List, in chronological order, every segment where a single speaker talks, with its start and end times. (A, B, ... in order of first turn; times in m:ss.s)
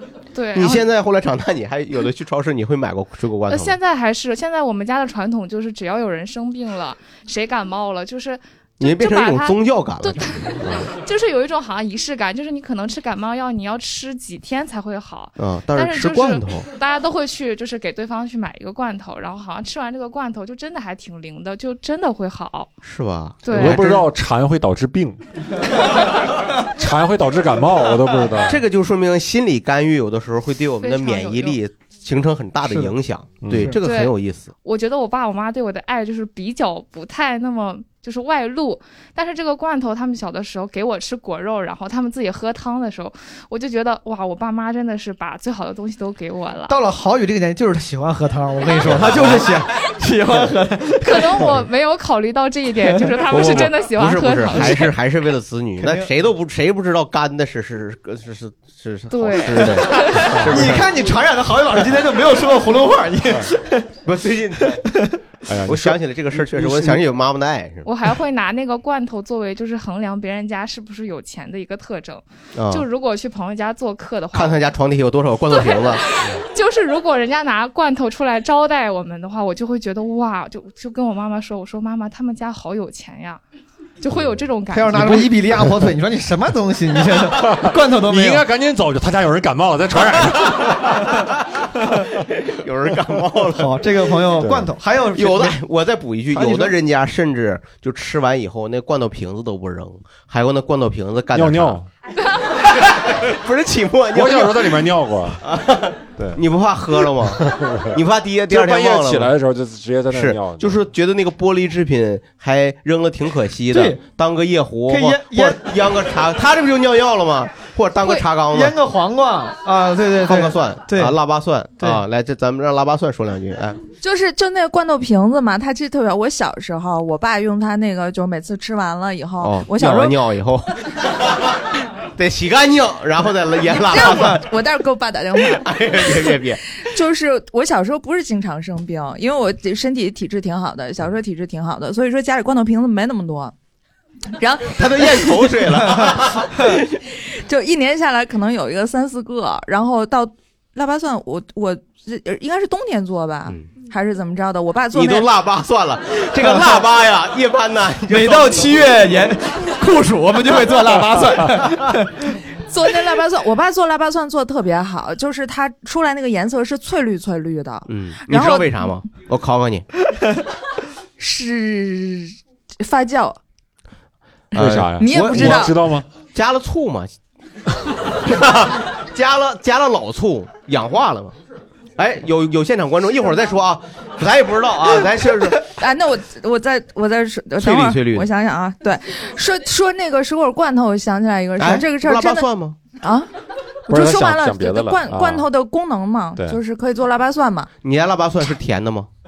0:00.3-0:00.9 A
0:00.6-0:03.8 B
0:03.5-0:22.7 A
0:08.8-0:10.9 B
0:15.4-0:16.7 B
0:22.8-0:24.1 B
0:23.4-0:23.8 A
0:23.5-0:25.2 C
0:26.7-0:28.6 C
0:28.4-0:34.5 B
0:30.8-0:31.6 A
0:32.7-0:32.9 D
0:33.4-0:33.8 C
0:33.5-0:33.8 D
0:33.8-0:46.8 A
0:46.7-0:51.5 D
0:48.9-0:49.5 B
0:51.0-0:54.9 A
0:52.9-0:53.7 D
0:53.3-1:00.9 B
0:54.5-0:54.9 D
0:55.8-0:56.1 D
0:59.1-1:00.3 A
0:59.6-1:03.9 D
1:04.0-1:04.8 B
1:04.8-1:05.2 D
1:05.5-1:05.9 C
1:05.7-1:07.9 B
1:05.7-1:07.0 D
1:07.8-1:14.6 A
1:12.6-1:12.8 B
1:14.3-1:16.0 B
1:15.5-1:23.4 A
1:24.0-1:25.3 A
1:24.7-1:28.4 D
1:25.0-1:25.8 C
1:27.4-1:31.2 C
1:32.4-1:33.7 B
1:33.6-1:35.6 D
1:34.4-1:34.7 C
1:35.2-1:41.8 B
1:36.3-1:36.7 D
1:41.3-1:41.9 C
1:42.7-1:44.9 B
1:44.1-1:45.4 C
1:45.4-1:49.3 B
1:47.4-1:47.9 C
1:48.5-1:50.8 C
1:50.1-1:58.8 B
1:53.7-1:54.0 D
1:54.9-1:55.8 D
1:58.5-2:01.2 D
2:00.2-2:03.8 B
2:04.0-2:10.1 E
2:09.4-2:11.3 B
2:09.8-2:10.1 D
2:12.2-2:14.5 B
2:13.9-2:23.5 E
2:15.4-2:16.6 B
2:24.4-2:25.4 E
2:24.7-2:26.9 B
2:25.8-2:26.8 D
2:27.1-2:35.3 E
2:34.9-2:38.9 B
2:36.4-2:36.8 D
2:38.1-2:42.2 D
2:42.7-2:49.0 E
2:47.9-2:49.9 B
2:51.2-2:53.4 E
2:54.5-2:56.1 C
2:54.6-2:55.7 B
2:54.9-2:55.8 E
2:56.3-2:57.1 B
2:58.2-3:01.4 B
3:02.0-3:05.7 B
3:05.7-3:13.3 E
3:07.6-3:08.3 B
3:11.6-3:12.8 B
3:13.9-3:17.7 E
3:13.9-3:15.5 C
3:17.8-3:19.1 B